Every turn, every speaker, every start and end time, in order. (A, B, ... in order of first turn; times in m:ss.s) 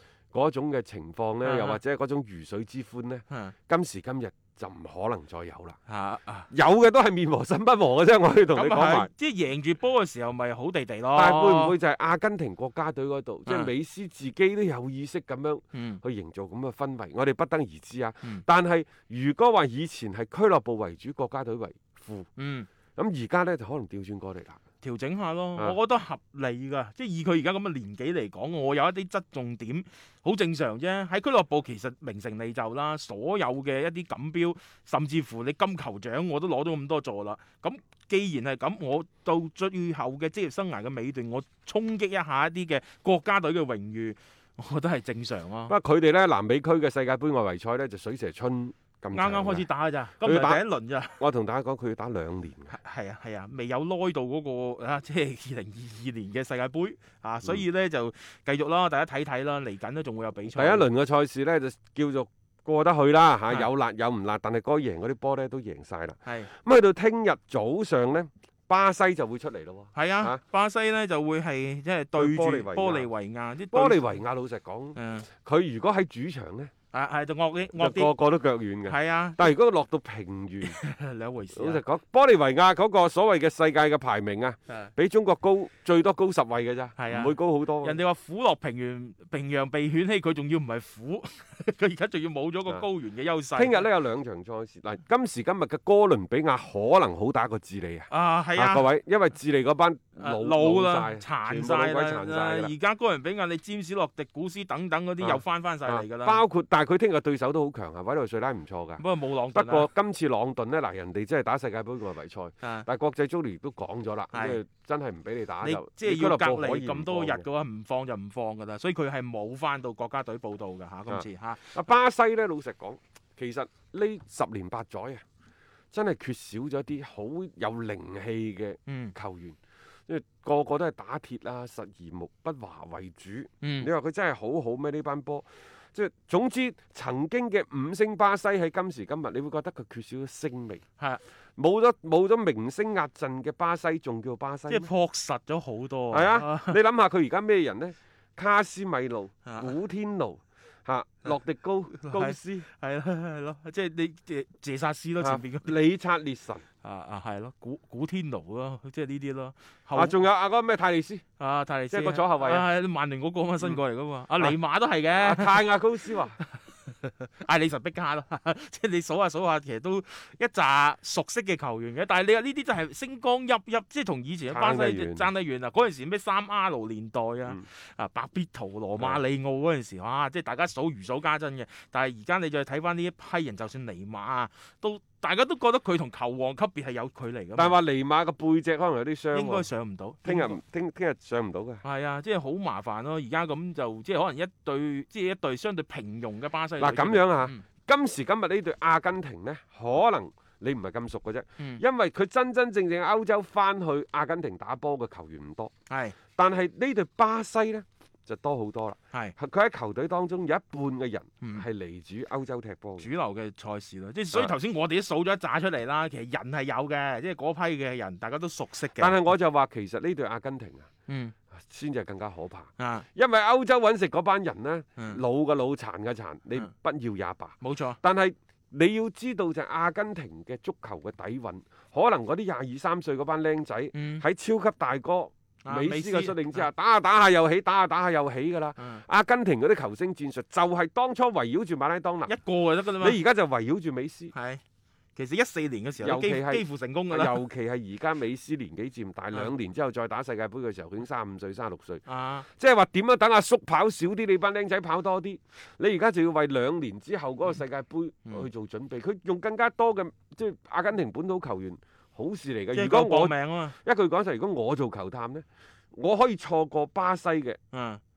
0:00.3-0:05.8 A
0:01.4-0:01.8 B
0:05.9-0:06.5 B
0:06.5-0:09.1 A
0:08.5-0:11.8 B
0:11.1-0:22.3 A
0:13.4-0:13.7 B
0:15.7-0:16.0 B
0:22.4-0:22.7 B
0:23.0-0:24.6 A
0:24.8-0:45.7 B
0:45.7-0:49.7 A
0:49.1-0:51.2 B
0:50.2-0:50.6 A
0:51.2-0:52.8 A
0:52.7-1:00.9 B
1:00.5-1:10.4 A
1:09.9-1:14.2 B
1:12.1-1:13.1 A
1:13.7-1:16.7 A
1:15.0-1:15.3 B
1:16.9-1:18.1 B
1:17.8-1:20.8 A
1:18.9-1:19.5 B
1:20.6-1:21.8 B
1:21.5-1:28.0 A
1:27.0-1:33.8 B
1:33.5-1:42.7 A
1:38.1-1:38.9 B
1:40.2-1:46.4 B
1:45.2-1:57.4 A
1:49.0-1:49.9 B
1:52.6-1:52.9 B
1:54.3-1:54.6 B
1:55.6-2:01.8 B
2:01.1-2:05.2 A
2:05.9-2:09.6 A
2:08.9-2:09.1 B
2:10.1-2:20.8 A
2:13.6-2:13.9 B
2:21.6-2:24.9 A
2:24.7-2:26.8 B
2:26.1-2:32.7 A
2:29.4-2:29.7 B
2:31.9-2:35.8 B
2:35.2-2:36.6 A
2:36.8-2:40.2 B
2:39.9-2:41.2 A
2:41.4-2:45.7 B
2:41.9-2:42.7 A
2:45.1-2:46.4 A
2:46.4-3:07.8 B
2:54.5-2:55.3 A
3:07.6-3:09.7 A
3:09.3-3:10.6 B
3:10.2-3:11.8 A
3:11.8-3:17.6 B
3:16.8-3:25.7 A
3:25.9-3:26.2 B
3:26.4-3:33.1 A
3:33.0-3:39.3 B
3:39.0-3:40.9 A
3:41.1-3:41.3 B
3:41.5-4:02.3 A
3:42.8-3:43.1 B
3:45.0-3:45.2 B
3:47.6-3:48.0 B
3:53.9-3:54.2 B
3:55.6-3:56.7 B
3:58.8-3:59.0 B
4:02.2-4:03.2 B
4:03.0-4:04.3 A
4:04.3-4:04.6 B
4:05.2-4:07.4 B
4:06.0-4:27.6 A
4:12.0-4:12.4 B
4:22.7-4:23.7 B
4:27.7-4:28.0 B